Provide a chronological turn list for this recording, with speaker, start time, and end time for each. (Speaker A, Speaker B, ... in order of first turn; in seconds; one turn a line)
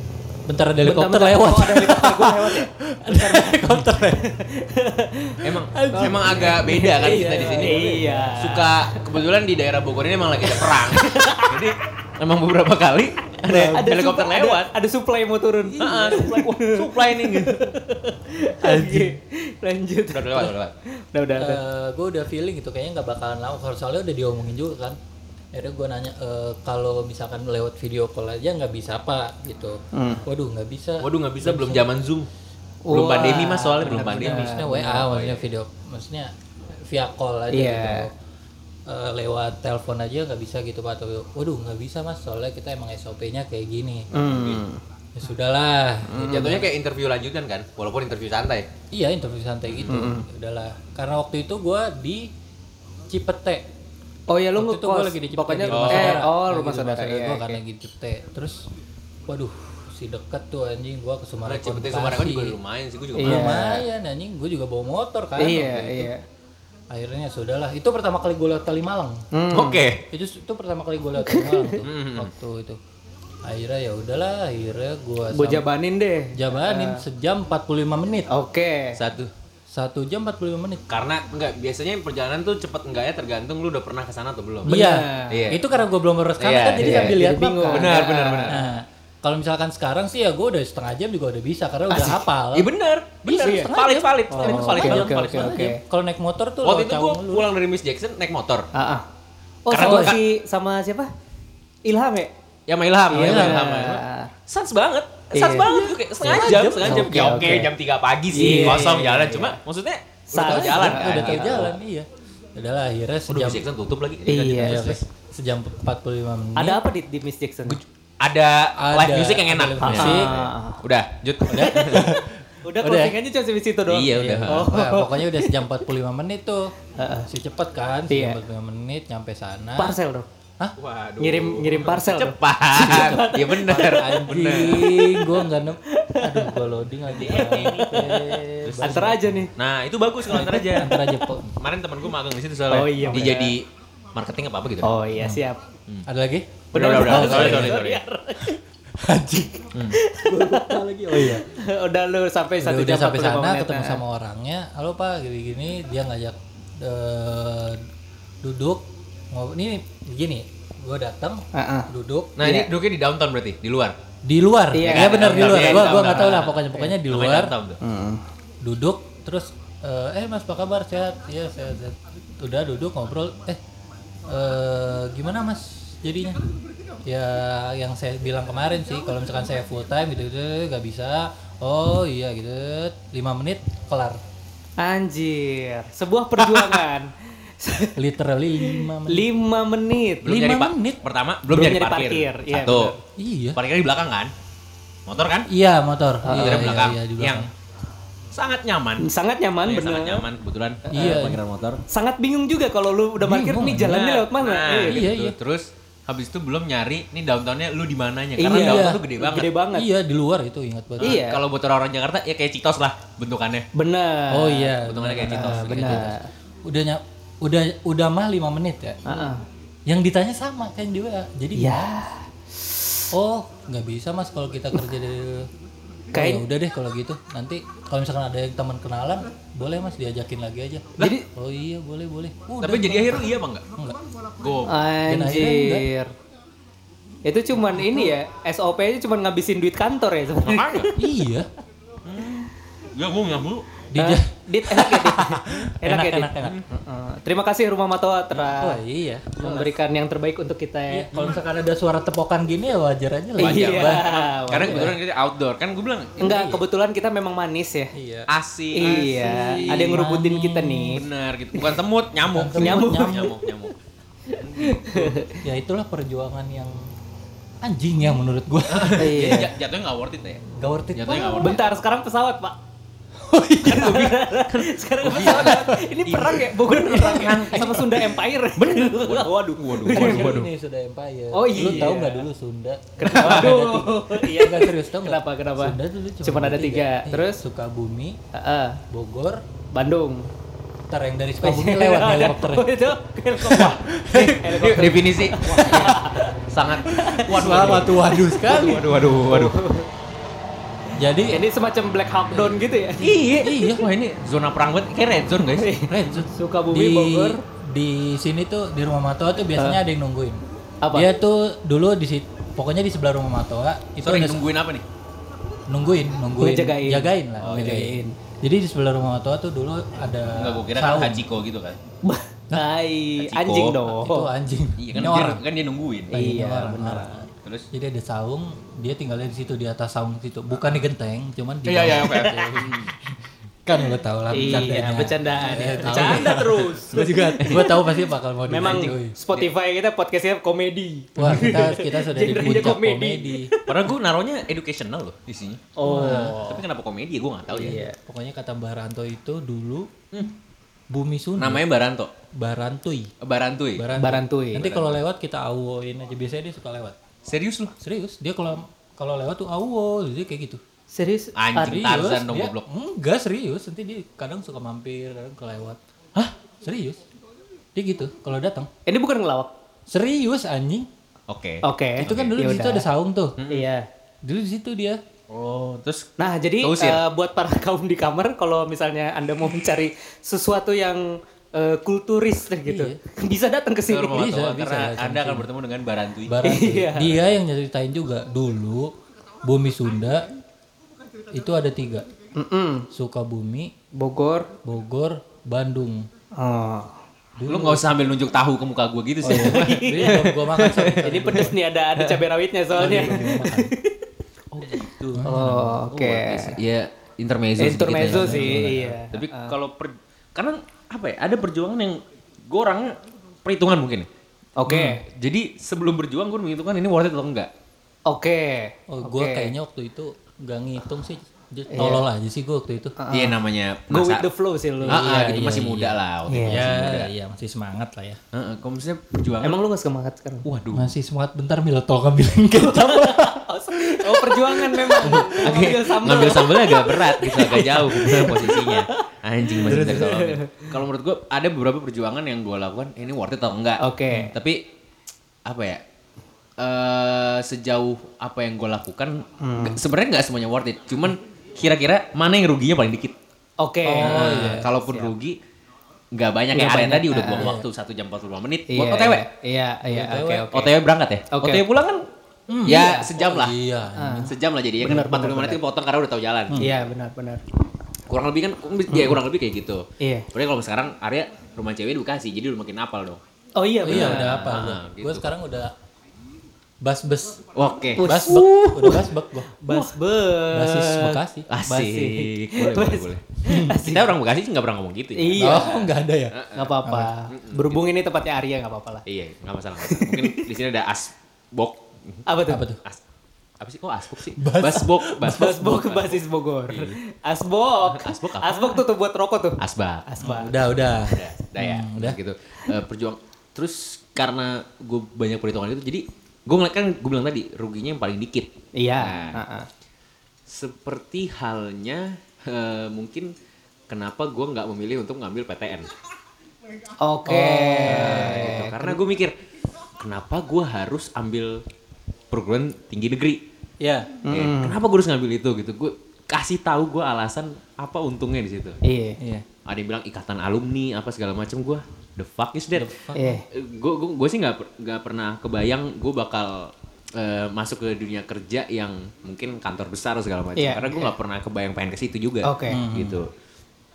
Speaker A: 0.5-4.4
Speaker B: 0.8-9.0
Speaker C: 5.4-14.7
Speaker A: 5.7-6.4
Speaker A: 7.0-8.2
Speaker B: 10.6-11.7
Speaker B: 13.5-21.6
Speaker A: 15.7-16.4
Speaker C: 15.8-17.8
Speaker A: 18.6-19.2
Speaker C: 20.1-20.7
Speaker A: 21.4-25.0
Speaker A: 25.5-31.9
Speaker B: 29.9-30.2
Speaker C: 31.0-32.3
Speaker B: 32.8-35.0
Speaker C: 32.9-35.5
Speaker A: 33.8-36.3
Speaker A: 36.8-38.1
Speaker B: 37.5-38.1
Speaker A: 38.9-44.1
Speaker B: 44.1-44.8
Speaker C: 44.1-44.6
Speaker A: 45.1-46.7
Speaker B: 46.1-46.6
Speaker C: 46.2-48.7
Speaker A: 48.9-52.3
Speaker C: 49.6-50.1
Speaker B: 49.9-50.2
Speaker A: 53.1-53.6
Speaker B: 54.3-57.6
Speaker A: 54.6-58.7
Speaker C: 55.7-56.3
Speaker A: 59.3-62.6
Speaker C: 61.4-63.7
Speaker B: 63.2-63.8
Speaker A: 63.2-66.1
Speaker B: 65.4-66.2
Speaker A: 66.9-69.2
Speaker B: 69.3-69.9
Speaker C: 69.5-70.0
Speaker A: 70.1-72.8
Speaker B: 71.2-71.8
Speaker C: 71.8-72.3
Speaker A: 73.4-75.7
Speaker B: 75.3-77.0
Speaker A: 76.3-78.3
Speaker B: 78.3-79.0
Speaker C: 78.9-79.3
Speaker A: 79.7-80.8
Speaker C: 80.9-85.6
Speaker B: 84.7-85.5
Speaker A: 84.7-87.9
Speaker C: 86.4-88.6
Speaker B: 86.7-88.6
Speaker A: 88.5-92.7
Speaker B: 91.9-92.2
Speaker C: 92.5-95.8
Speaker A: 93.2-97.5
Speaker B: 93.4-93.7
Speaker B: 94.3-95.8
Speaker C: 96.6-98.7
Speaker B: 98.7-99.1
Speaker B: 99.7-101.1
Speaker C: 99.7-100.2
Speaker A: 99.7-100.2
Speaker B: 101.8-102.3
Speaker C: 102.7-111.7
Speaker B: 103.1-104.3
Speaker A: 103.1-103.7
Speaker B: 105.3-105.9
Speaker A: 106.2-107.7
Speaker B: 106.8-107.7
Speaker B: 108.3-109.6
Speaker A: 108.4-108.9
Speaker B: 110.3-111.8
Speaker A: 110.3-113.6
Speaker C: 113.3-115.0
Speaker B: 114.3-115.0
Speaker A: 114.3-116.8
Speaker B: 116.5-117.8
Speaker C: 117.7-122.2
Speaker A: 118.8-120.3
Speaker B: 119.8-120.8
Speaker A: 121.5-122.3
Speaker B: 121.8-122.0
Speaker B: 122.6-125.6
Speaker A: 122.8-123.1
Speaker C: 123.9-124.7
Speaker A: 124.2-126.7
Speaker B: 127.0-127.3
Speaker A: 127.2-130.0
Speaker B: 128.1-128.4
Speaker B: 129.8-130.3
Speaker C: 130.8-134.9
Speaker B: 131.2-136.6
Speaker A: 132.8-139.5
Speaker C: 137.1-139.0
Speaker B: 137.2-139.5
Speaker C: 139.6-141.0
Speaker A: 140.3-141.5
Speaker B: 140.4-141.2
Speaker C: 141.5-145.1
Speaker B: 142.7-143.5
Speaker B: 144.8-145.6
Speaker A: 145.2-145.4
Speaker A: 146.1-147.8
Speaker C: 146.7-148.0
Speaker B: 146.7-148.6
Speaker A: 149.0-151.5
Speaker C: 149.7-150.0
Speaker B: 149.9-154.0
Speaker A: 152.6-157.9
Speaker A: 158.4-162.4
Speaker B: 161.5-161.9
Speaker C: 162.4-163.9
Speaker B: 162.4-162.7
Speaker A: 164.2-167.5
Speaker B: 164.7-166.9
Speaker C: 164.8-167.8
Speaker B: 167.8-168.2
Speaker A: 168.6-173.6
Speaker A: 174.3-176.4
Speaker A: 177.0-184.2
Speaker B: 184.8-190.3
Speaker C: 186.5-186.8
Speaker A: 188.0-189.3
Speaker C: 190.2-192.9
Speaker A: 190.2-191.0
Speaker B: 191.5-193.0
Speaker A: 193.2-193.6
Speaker C: 193.5-194.3
Speaker C: 195.1-195.5
Speaker A: 195.5-197.5
Speaker B: 196.2-196.7
Speaker C: 196.3-197.5
Speaker C: 198.3-199.1
Speaker B: 199.0-200.2
Speaker C: 199.6-201.8
Speaker A: 200.9-201.4
Speaker B: 200.9-201.2
Speaker B: 201.9-205.1
Speaker A: 203.2-204.1
Speaker C: 203.9-209.5
Speaker A: 204.8-205.3
Speaker B: 208.4-209.9
Speaker A: 208.5-209.0
Speaker A: 209.7-211.2
Speaker C: 211.0-213.7
Speaker B: 211.0-211.4
Speaker B: 213.7-216.3
Speaker A: 214.3-219.0
Speaker C: 214.8-216.2
Speaker B: 219.1-219.4
Speaker A: 219.9-222.0
Speaker B: 221.6-222.2
Speaker A: 223.1-225.5
Speaker A: 226.1-234.0
Speaker B: 226.1-226.4
Speaker B: 231.0-231.3
Speaker C: 232.6-233.7
Speaker C: 234.4-234.8
Speaker B: 234.7-236.1
Speaker A: 235.1-235.9
Speaker B: 237.2-240.9
Speaker A: 237.7-238.1
Speaker C: 240.4-240.9
Speaker A: 241.0-241.5
Speaker C: 242.0-243.7
Speaker A: 243.9-246.6
Speaker B: 244.0-248.8
Speaker A: 248.3-249.7
Speaker B: 249.4-251.1
Speaker A: 250.9-254.9
Speaker C: 253.4-256.3
Speaker B: 253.4-254.9
Speaker A: 256.2-256.6
Speaker B: 256.2-257.9
Speaker A: 257.9-258.3
Speaker C: 258.3-260.1
Speaker B: 258.7-261.8
Speaker A: 258.9-261.0
Speaker C: 260.9-263.7
Speaker A: 262.3-263.3
Speaker B: 262.6-263.5
Speaker B: 264.3-265.4
Speaker C: 264.3-265.2
Speaker A: 265.4-266.8
Speaker A: 267.6-269.4
Speaker C: 268.7-270.4
Speaker B: 269.0-269.5
Speaker A: 270.5-271.6
Speaker C: 270.9-271.8
Speaker B: 271.4-272.6
Speaker C: 273.3-280.5
Speaker B: 273.6-280.4
Speaker A: 275.1-275.8
Speaker A: 277.5-277.8
Speaker A: 279.9-288.2
Speaker B: 281.3-282.2
Speaker B: 283.0-287.4
Speaker C: 283.1-283.5
Speaker B: 288.3-288.8
Speaker A: 288.9-289.4
Speaker B: 289.7-290.3
Speaker A: 290.9-292.8
Speaker B: 291.4-296.3
Speaker A: 293.4-294.4
Speaker C: 293.7-299.6
Speaker A: 295.4-296.2
Speaker B: 296.9-297.8
Speaker A: 297.1-298.9
Speaker B: 298.5-299.9
Speaker A: 300.9-301.4
Speaker B: 301.3-303.2
Speaker C: 303.0-305.8
Speaker A: 303.4-303.8
Speaker B: 305.5-307.4
Speaker A: 305.9-314.5
Speaker B: 310.8-311.1
Speaker C: 314.0-314.9
Speaker A: 315.7-321.2
Speaker B: 316.4-318.1
Speaker C: 317.4-317.8
Speaker C: 320.3-321.8
Speaker B: 322.0-324.3
Speaker C: 323.2-323.8
Speaker A: 323.9-325.4
Speaker C: 324.8-326.2
Speaker A: 326.1-333.0
Speaker B: 326.1-327.1
Speaker C: 327.4-327.7
Speaker C: 331.6-332.9
Speaker B: 332.1-332.4
Speaker A: 333.6-339.1
Speaker B: 334.3-343.9
Speaker C: 334.3-334.9
Speaker C: 335.5-337.7
Speaker C: 338.6-339.5
Speaker A: 341.1-343.5
Speaker C: 343.7-347.8
Speaker B: 345.8-346.6
Speaker A: 345.8-346.4
Speaker B: 347.5-348.0
Speaker A: 347.6-349.9
Speaker A: 350.9-351.6
Speaker C: 351.4-352.1
Speaker A: 352.4-353.1
Speaker C: 353.2-353.9
Speaker A: 353.8-357.0
Speaker B: 354.0-354.7
Speaker C: 354.6-355.0
Speaker C: 357.2-357.7
Speaker A: 357.8-360.6
Speaker B: 360.9-361.9
Speaker C: 361.4-362.6
Speaker A: 361.6-365.8
Speaker A: 366.6-367.0
Speaker A: 367.8-368.7
Speaker B: 368.9-369.5
Speaker A: 369.9-370.9
Speaker C: 371.3-372.4
Speaker B: 371.6-372.9
Speaker A: 372.0-373.4
Speaker C: 373.4-373.7
Speaker B: 373.5-373.9
Speaker A: 374.2-375.0
Speaker C: 375.3-377.0
Speaker B: 376.2-384.2
Speaker A: 382.7-383.0
Speaker C: 383.9-386.5
Speaker A: 384.1-385.5
Speaker A: 386.2-388.9
Speaker B: 386.4-387.2
Speaker A: 389.4-390.3
Speaker A: 391.3-392.1
Speaker B: 392.4-392.9
Speaker A: 392.9-393.7
Speaker B: 393.9-394.5
Speaker A: 394.6-396.1
Speaker B: 396.4-396.9
Speaker A: 397.4-397.9
Speaker C: 397.5-401.0
Speaker A: 399.2-401.6
Speaker B: 399.3-404.0
Speaker C: 402.0-402.2
Speaker A: 402.8-403.7
Speaker C: 404.5-405.3
Speaker A: 405.1-405.8
Speaker B: 405.2-406.6
Speaker C: 405.9-414.1
Speaker B: 407.6-409.6
Speaker A: 408.1-408.9
Speaker B: 414.6-415.0
Speaker C: 414.7-417.5
Speaker B: 418.1-419.5
Speaker A: 418.9-422.9
Speaker B: 421.7-422.0
Speaker B: 423.0-423.4
Speaker C: 423.1-424.3
Speaker B: 423.9-425.1
Speaker A: 424.8-428.2
Speaker C: 424.9-427.1
Speaker B: 426.3-426.7
Speaker C: 428.3-429.6
Speaker B: 429.4-430.5
Speaker C: 430.4-430.9
Speaker A: 430.7-435.7
Speaker B: 432.5-440.8
Speaker C: 434.9-444.7
Speaker A: 439.6-440.2
Speaker B: 443.8-444.3
Speaker C: 445.4-445.8
Speaker C: 446.6-453.1
Speaker B: 449.4-449.8
Speaker B: 453.6-455.1
Speaker A: 453.8-454.7
Speaker C: 454.0-455.4
Speaker C: 456.1-459.2
Speaker B: 456.5-457.5
Speaker A: 457.3-457.6
Speaker B: 458.7-460.7
Speaker A: 459.9-460.5
Speaker C: 460.5-462.0
Speaker B: 461.3-461.6
Speaker A: 462.5-464.3
Speaker C: 462.6-463.6
Speaker B: 462.7-463.1
Speaker B: 464.0-465.6
Speaker C: 464.2-466.8
Speaker B: 466.6-467.4
Speaker C: 468.1-473.2
Speaker B: 468.9-469.2
Speaker B: 470.0-470.3
Speaker B: 473.6-474.5
Speaker A: 473.8-475.7
Speaker C: 473.9-475.3
Speaker A: 476.8-477.4
Speaker C: 477.5-479.0
Speaker B: 478.0-479.0
Speaker A: 478.0-479.6
Speaker B: 479.6-484.1
Speaker A: 480.5-481.5
Speaker C: 481.5-486.7
Speaker A: 483.5-483.8
Speaker B: 485.1-485.9
Speaker A: 485.4-487.1
Speaker B: 486.5-489.1
Speaker C: 487.3-487.8
Speaker C: 489.1-492.2
Speaker B: 489.8-490.5
Speaker B: 492.3-492.6
Speaker A: 492.5-492.8
Speaker C: 493.6-497.0
Speaker A: 494.4-495.5
Speaker B: 495.2-500.6
Speaker C: 497.8-498.9
Speaker C: 499.6-509.4
Speaker A: 500.2-502.2
Speaker B: 508.8-509.7
Speaker C: 510.5-513.3
Speaker C: 513.9-515.9
Speaker B: 517.0-519.0
Speaker A: 517.2-518.6
Speaker C: 517.9-519.4
Speaker C: 520.0-521.6
Speaker C: 522.3-523.4
Speaker A: 523.8-524.1
Speaker B: 524.2-524.8
Speaker C: 524.3-528.8
Speaker B: 528.8-529.2
Speaker A: 529.2-529.4
Speaker C: 529.6-533.0
Speaker A: 532.7-533.4
Speaker B: 533.1-533.4
Speaker C: 533.5-543.3
Speaker B: 540.5-541.1
Speaker B: 542.4-542.8
Speaker A: 542.7-543.2